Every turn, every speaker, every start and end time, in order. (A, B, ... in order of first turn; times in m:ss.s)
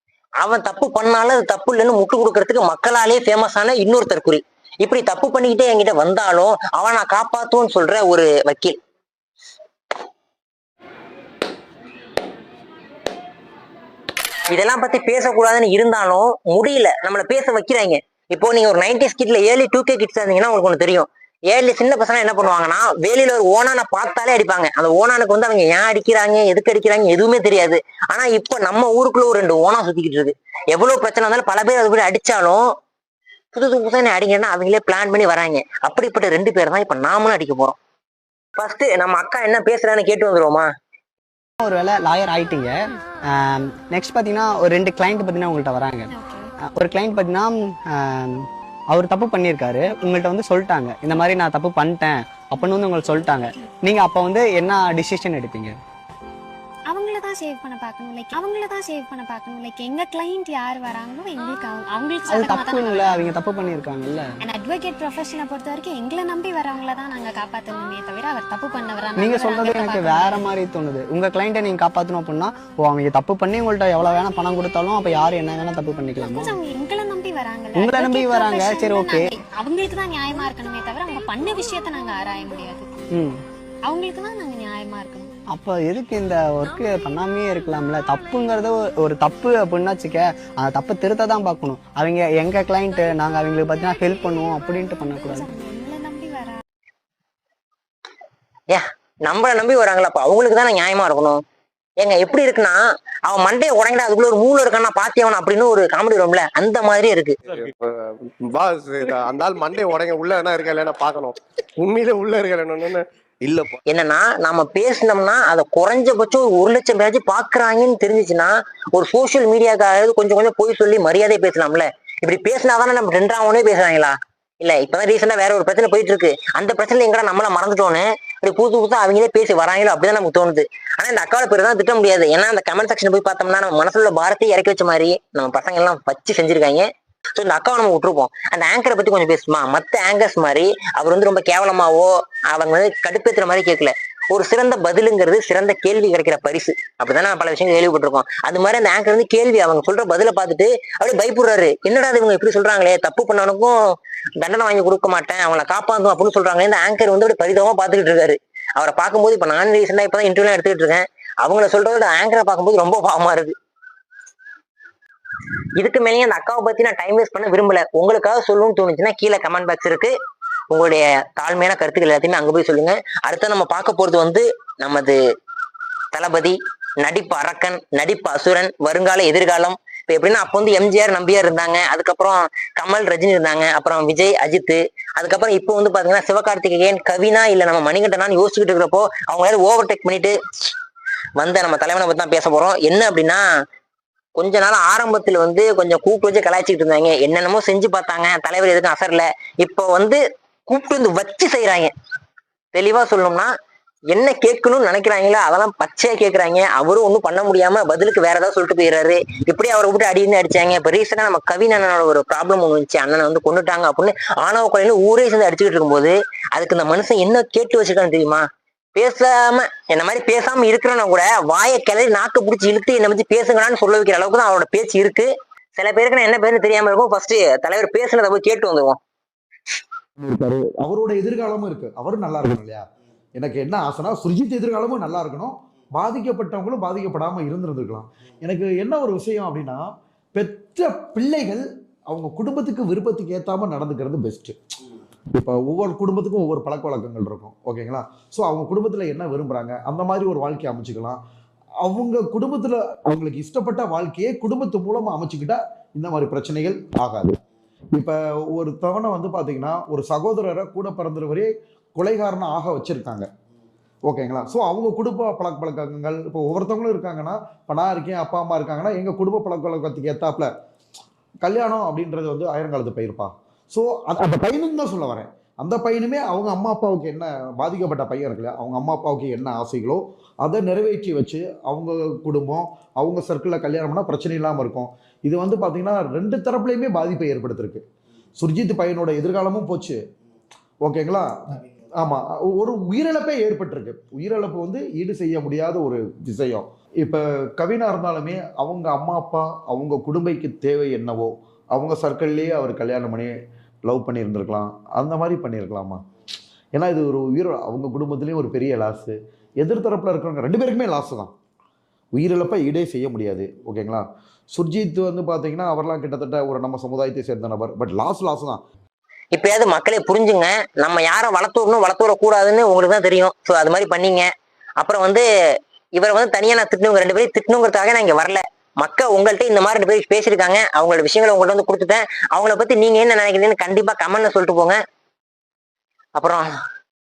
0:00.4-0:08.8 A
0:14.5-0:32.6 A
0:33.5-0:37.8 A
0:38.6-0:40.7 A
0:41.6-0:42.8 B
0:43.3-0:46.1 B
0:46.1-0:46.5 C
0:46.7-0:55.8 B
0:56.9-1:03.3 C
1:02.3-1:04.3 B
1:04.4-1:10.5 C
1:09.2-1:16.6 B
1:16.2-1:22.9 C
1:17.8-1:19.3 B
1:23.1-1:23.4 B
1:23.9-1:25.3 C
1:25.5-1:35.5 B
1:35.2-1:36.6 C
1:38.7-1:41.4 A
1:42.0-1:47.4 A
1:47.5-1:53.8 D
1:53.9-2:33.8 A
2:34.4-2:43.5 A
2:45.8-2:50.1 A
2:50.7-2:55.2 A
2:56.1-3:10.4 A
3:11.4-3:13.4 A
3:14.4-3:21.9 A
3:22.7-3:23.5 A
3:24.1-3:49.0 A
3:50.2-3:52.8 E
3:53.4-4:04.6 E
4:05.4-4:11.2 E
4:11.8-4:17.4 E
4:18.0-4:23.3 E
4:24.0-4:30.5 E
4:31.4-4:47.8 E
4:48.4-4:50.0 E
4:50.8-5:03.3 E
5:03.8-5:06.0 E
5:06.7-5:11.3 E
5:12.2-5:18.6 E
5:19.3-5:25.3 A
5:26.0-5:34.8 A
5:36.2-5:36.5 A